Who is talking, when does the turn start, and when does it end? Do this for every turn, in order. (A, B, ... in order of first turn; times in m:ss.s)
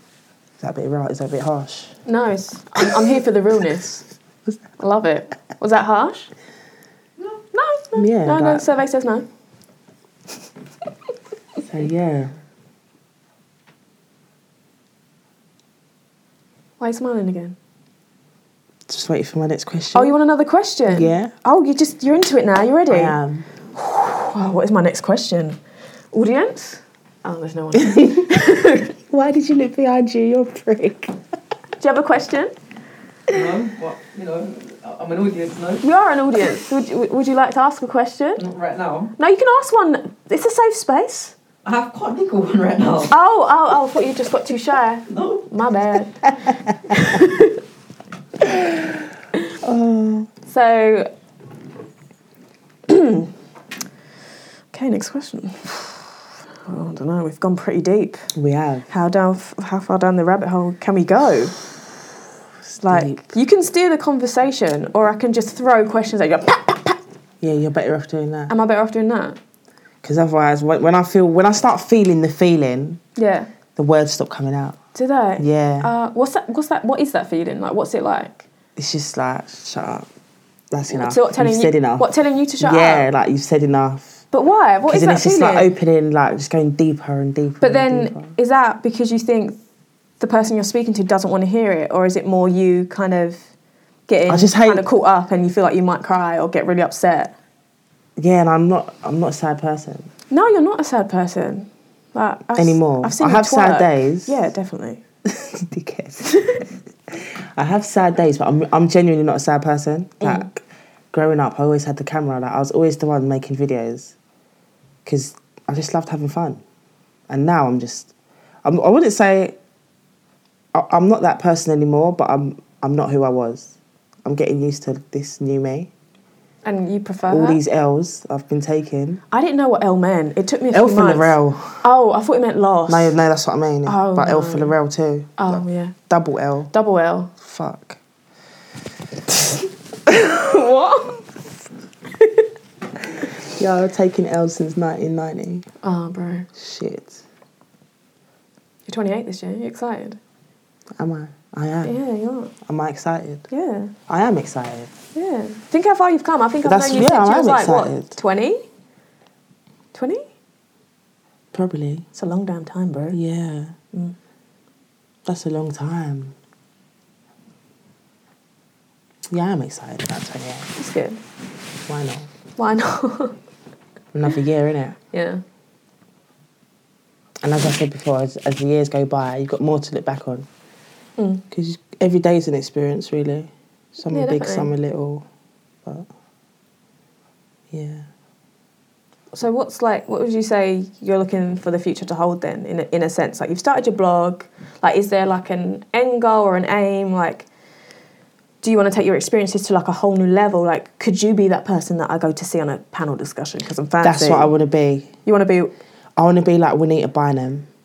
0:00.6-0:02.0 A
0:02.1-0:04.0 B
0:04.8-0:06.3 B
0:07.4-0:09.3 B
0:08.0-0:08.7 A
0:11.6-0:12.3 A
0:16.8-0:17.6 B
0:18.9-0:20.1 A
0:19.9-0:23.2 B
0:20.9-0:21.3 A
0:22.9-0:23.5 A
0:23.8-0:25.6 B
0:26.1-0:28.9 B
0:27.8-0:28.2 A
0:29.1-0:31.2 A
0:31.8-0:32.5 B
0:33.3-0:35.9 C
0:35.8-0:38.4 B
0:38.4-0:39.1 C
0:39.2-0:41.4 B
0:41.6-0:43.1 C
0:43.1-0:46.3 B
0:45.1-0:45.5 C
0:46.9-0:47.6 B
0:49.6-0:50.3 A
0:50.4-0:51.1 B
0:52.9-0:53.3 B
0:54.7-0:58.3 B
0:58.4-0:58.9 A
0:58.9-1:01.6 B
1:02.8-1:07.0 B
1:02.9-1:03.3 A
1:07.4-1:08.5 A
1:08.5-1:09.4 B
1:10.0-1:13.0 A
1:13.2-1:13.5 B
1:13.8-1:14.8 A
1:15.0-1:18.5 B
1:15.4-1:15.9 A
1:18.8-1:20.1 A
1:20.7-1:22.1 A
1:20.9-1:23.1 B
1:22.6-1:24.2 A
1:24.3-1:25.7 B
1:24.9-1:28.4 A
1:27.6-1:29.6 B
1:30.2-1:33.4 B
1:34.1-1:37.3 B
1:34.3-1:34.8 A
1:38.2-1:40.1 A
1:40.3-1:45.0 B
1:42.6-1:44.4 A
1:45.2-1:46.4 A
1:46.3-1:46.6 B
1:47.1-1:50.6 A
1:51.1-1:54.2 A
1:55.0-1:56.6 A
1:57.3-1:58.1 A
1:58.6-1:59.6 A
2:00.7-2:05.9 A
2:06.6-2:07.6 B
2:07.3-2:09.2 A
2:09.3-2:13.2 B
2:10.7-2:11.8 A
2:12.9-2:16.7 A
2:13.9-2:14.8 B
2:15.4-2:16.0 B
2:16.7-2:17.3 B
2:17.4-2:18.0 A
2:19.5-2:21.2 B
2:22.2-2:22.4 B
2:23.4-2:25.7 A
2:25.8-2:26.5 B
2:26.6-2:27.2 A
2:28.9-2:30.2 B
2:31.0-2:32.0 A
2:31.8-2:32.5 B
2:32.6-2:33.5 A
2:33.5-2:33.9 B
2:34.1-2:34.9 A
2:35.1-2:38.6 B
2:36.6-2:38.1 A
2:39.9-2:40.2 B
2:41.5-2:42.1 A
2:42.1-2:43.2 B
2:43.1-2:43.8 A
2:45.3-2:46.4 A
2:49.3-2:50.7 A
2:50.8-2:51.2 B
2:51.9-2:52.3 A
2:52.6-2:53.4 B
2:54.1-2:55.0 A
2:55.1-2:55.4 B
2:57.4-3:00.5 A
3:01.2-3:01.4 B
3:01.5-3:05.2 A
3:04.1-3:04.7 B
3:07.7-3:08.1 A
3:09.3-3:17.5 B
3:18.6-3:24.5 B
3:24.0-3:25.1 A
3:25.3-3:25.7 B
3:26.2-3:27.7 A